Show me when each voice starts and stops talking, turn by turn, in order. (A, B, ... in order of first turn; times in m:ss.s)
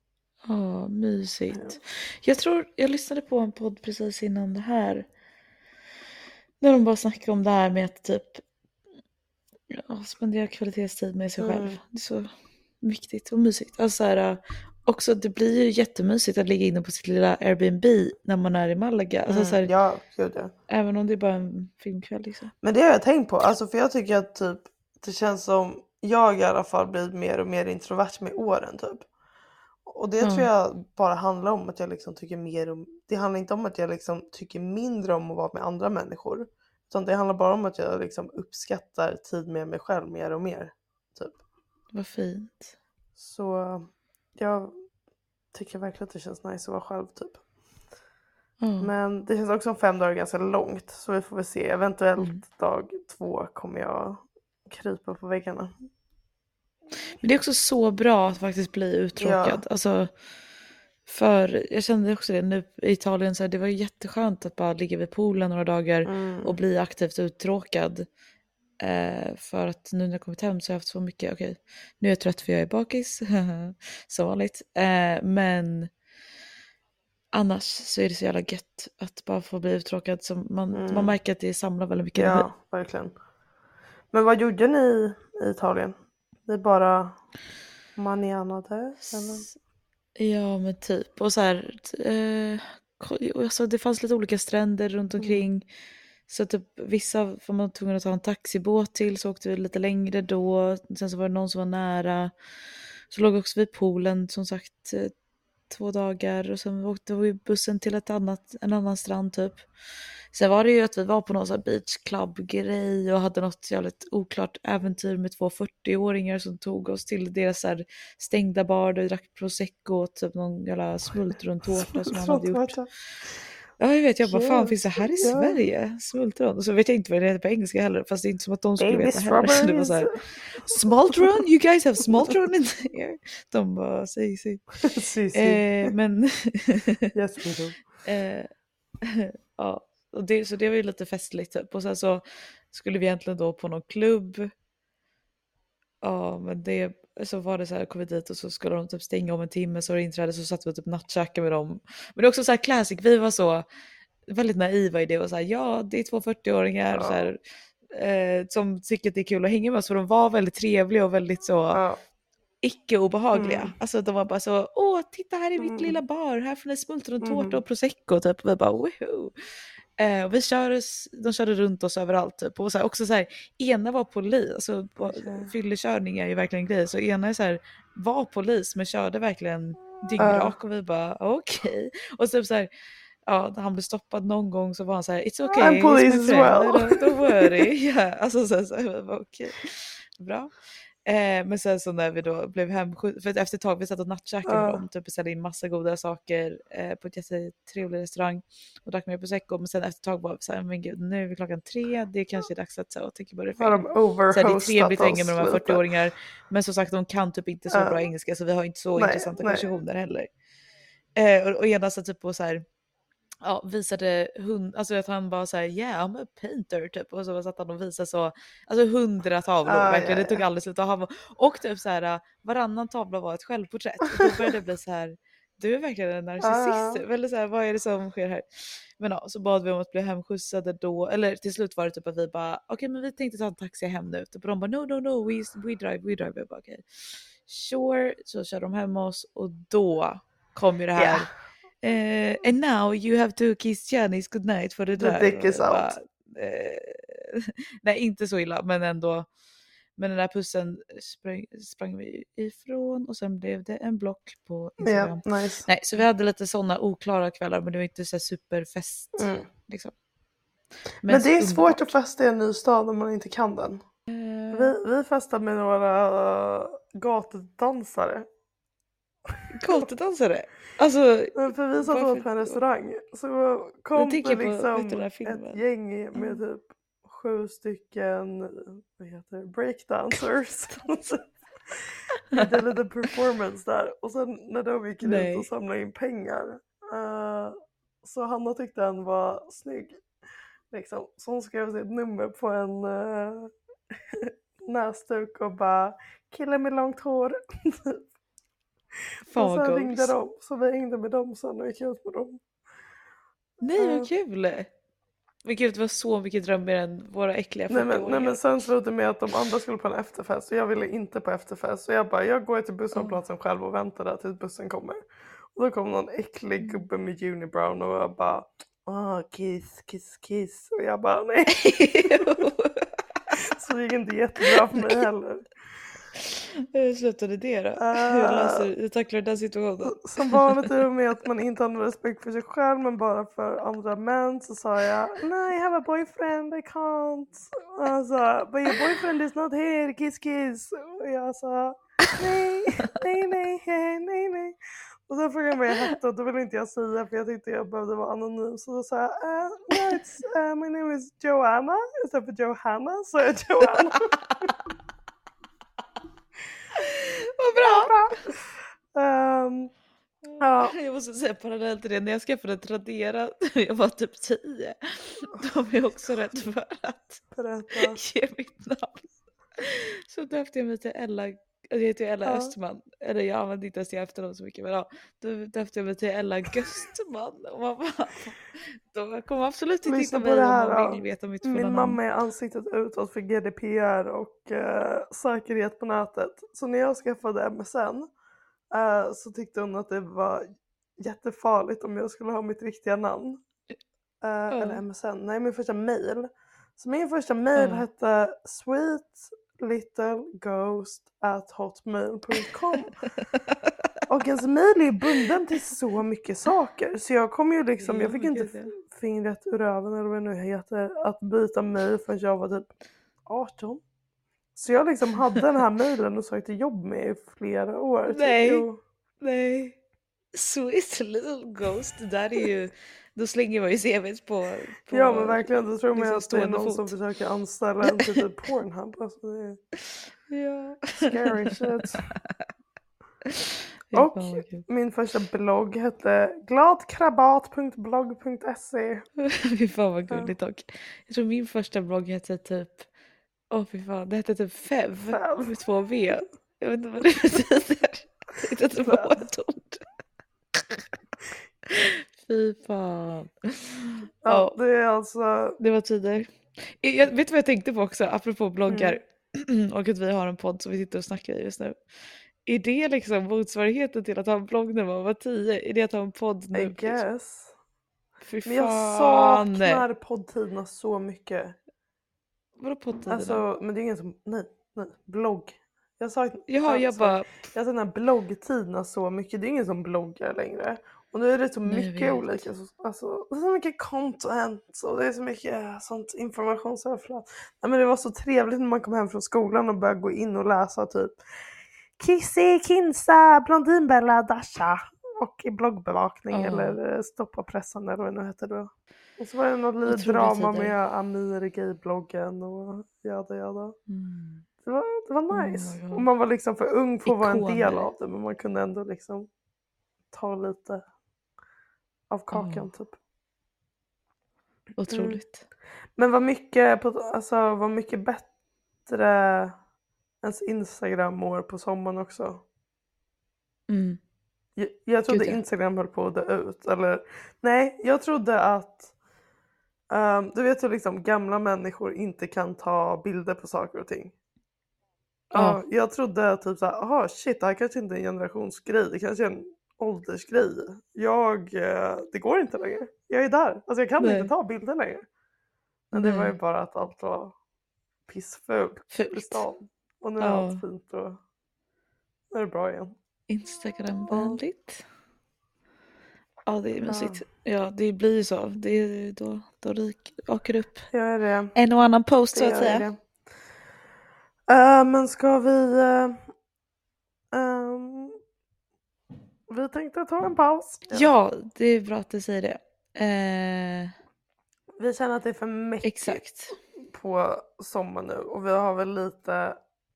0:00.5-0:05.1 A
0:06.6-0:08.4 A
0:09.7-0:19.7 A
0:11.4-0:11.8 B
0:19.3-0:20.5 B
0:20.7-0:22.5 A
0:22.6-0:29.1 B
0:29.9-0:41.4 B
0:30.2-0:30.5 A
0:41.9-0:42.7 A
0:43.2-0:44.7 B
0:45.5-0:47.4 B
0:48.6-0:48.9 A
0:48.8-0:55.8 B
0:52.2-0:52.4 A
0:57.2-1:00.1 A
0:59.2-0:59.6 B
1:01.1-1:08.1 A
1:06.1-1:06.6 B
1:08.8-1:15.9 A
1:17.3-1:22.5 A
1:20.7-1:21.2 B
1:22.2-1:23.1 B
1:24.1-1:27.2 B
1:28.0-1:29.5 B
1:29.0-1:29.6 A
1:30.2-1:35.7 A
1:35.2-1:35.5 B
1:36.3-1:42.3 A
1:43.1-1:45.1 A
1:45.7-1:49.7 A
1:50.3-2:02.8 A
2:01.8-2:02.9 B
2:03.8-2:14.7 A
2:04.2-2:05.6 B
2:08.8-2:10.1 B
2:10.7-2:11.4 B
2:12.1-2:12.4 B
2:14.8-2:15.9 B
2:15.3-2:17.1 A
2:17.2-2:17.8 B
2:18.0-2:18.5 A
2:19.0-2:24.5 A
2:26.0-2:33.6 A
2:34.3-2:37.4 A
2:36.9-2:37.2 B
2:37.9-2:41.8 A
2:41.7-2:42.0 B
2:42.6-2:49.3 A
2:43.3-2:43.7 B
2:45.6-2:46.0 B
2:47.2-2:47.6 B
2:50.0-3:02.7 A
2:55.0-2:55.5 B
3:00.2-3:00.6 B
3:03.3-3:10.5 A
3:05.6-3:07.2 B
3:11.1-3:30.3 A
3:14.4-3:14.8 B
3:23.6-3:25.9 B
3:27.7-3:28.0 B
3:29.0-3:29.7 B
3:31.2-3:32.6 A
3:33.4-4:01.3 A
3:39.6-3:40.4 B
3:46.4-3:47.0 B
4:01.0-4:01.3 B
4:01.8-4:09.3 A
4:05.0-4:06.0 B
4:10.0-4:19.9 A
4:14.8-4:15.7 B
4:19.2-4:19.5 B
4:21.0-4:22.0 A
4:21.0-4:23.8 B
4:24.1-4:24.7 A
4:24.5-4:28.3 B
4:29.5-4:32.6 A
4:31.4-4:50.0 B
4:34.0-4:35.6 A
4:36.2-4:36.4 A
4:45.0-4:45.5 A
4:50.7-4:53.5 B
4:54.1-4:58.0 B
4:59.3-5:00.2 A
4:59.3-5:02.4 B
5:03.6-5:04.7 A
5:03.8-5:04.1 B
5:05.4-5:08.4 A
5:07.7-5:15.0 B
5:12.9-5:13.2 A
5:15.6-5:22.4 B
5:16.6-5:16.9 A
5:21.5-5:22.9 A
5:23.4-5:25.5 B
5:26.3-5:30.7 A
5:27.8-5:28.7 B
5:29.8-5:54.2 B
5:56.7-5:58.3 A
5:57.6-5:58.4 B
5:58.9-5:59.7 B
6:00.3-6:07.2 A
6:00.4-6:00.8 B
6:07.3-6:08.0 B
6:07.8-6:22.0 A
6:12.2-6:12.5 B
6:19.8-6:28.1 B
6:28.7-6:33.4 B
6:34.2-6:43.0 B
6:34.5-6:34.8 A
6:37.6-6:37.9 A
6:43.2-6:43.7 A
6:44.1-6:52.7 B
6:47.8-6:48.8 A
6:53.3-6:53.8 B
6:54.6-6:58.8 B
6:58.1-6:58.7 A
6:59.2-6:59.8 A
7:00.3-7:07.0 A
7:04.9-7:09.6 B
7:07.8-7:08.2 A
7:10.3-7:11.6 A
7:10.9-7:12.0 B
7:13.3-7:14.6 A
7:13.9-7:19.1 B
7:19.2-7:22.9 A
7:23.5-7:29.8 A
7:25.1-7:25.6 B
7:28.8-7:29.3 B
7:30.5-7:30.9 A
7:31.7-7:34.6 A
7:34.2-7:35.6 B
7:35.6-7:41.8 A
7:38.7-7:39.0 B
7:42.5-7:47.0 A
7:46.5-7:47.6 B
7:48.2-7:49.8 A
7:48.4-7:51.6 B
7:52.6-7:53.4 A
7:53.1-8:11.2 B
7:56.5-7:57.3 A
8:01.7-8:02.5 A
8:12.0-8:23.8 B
8:16.3-8:16.8 A
8:19.8-8:20.8 A
8:23.9-8:24.5 A
8:24.6-8:29.3 B
8:25.3-8:26.1 A
8:27.0-8:27.9 A
8:30.1-8:30.9 B
8:32.1-8:33.0 B
8:32.3-8:32.7 A
8:34.8-8:35.4 A
8:34.9-8:35.2 B
8:36.0-8:38.3 B
8:38.9-8:39.6 B
8:40.2-8:42.4 B
8:43.7-8:44.0 A
8:44.6-8:48.9 B
8:45.1-8:45.4 A
8:49.9-8:54.1 B
8:55.3-9:05.0 B
8:55.4-8:55.6 A
9:04.0-9:04.3 A
9:05.9-9:07.4 B
9:06.0-9:06.3 A
9:08.1-9:11.2 B
9:08.9-9:09.4 A
9:10.2-9:10.6 A
9:12.3-9:12.9 B
9:13.3-9:14.8 A
9:14.1-9:14.4 B
9:16.5-9:20.9 A
9:16.8-9:17.2 B
9:20.9-9:21.6 B
9:21.6-9:22.9 A
9:22.3-9:23.0 B
9:24.5-9:26.3 B
9:27.3-9:28.2 B
9:29.5-9:31.1 B
9:30.9-9:33.9 A
9:34.8-9:36.2 B
9:35.8-9:36.6 A
9:36.8-9:39.6 B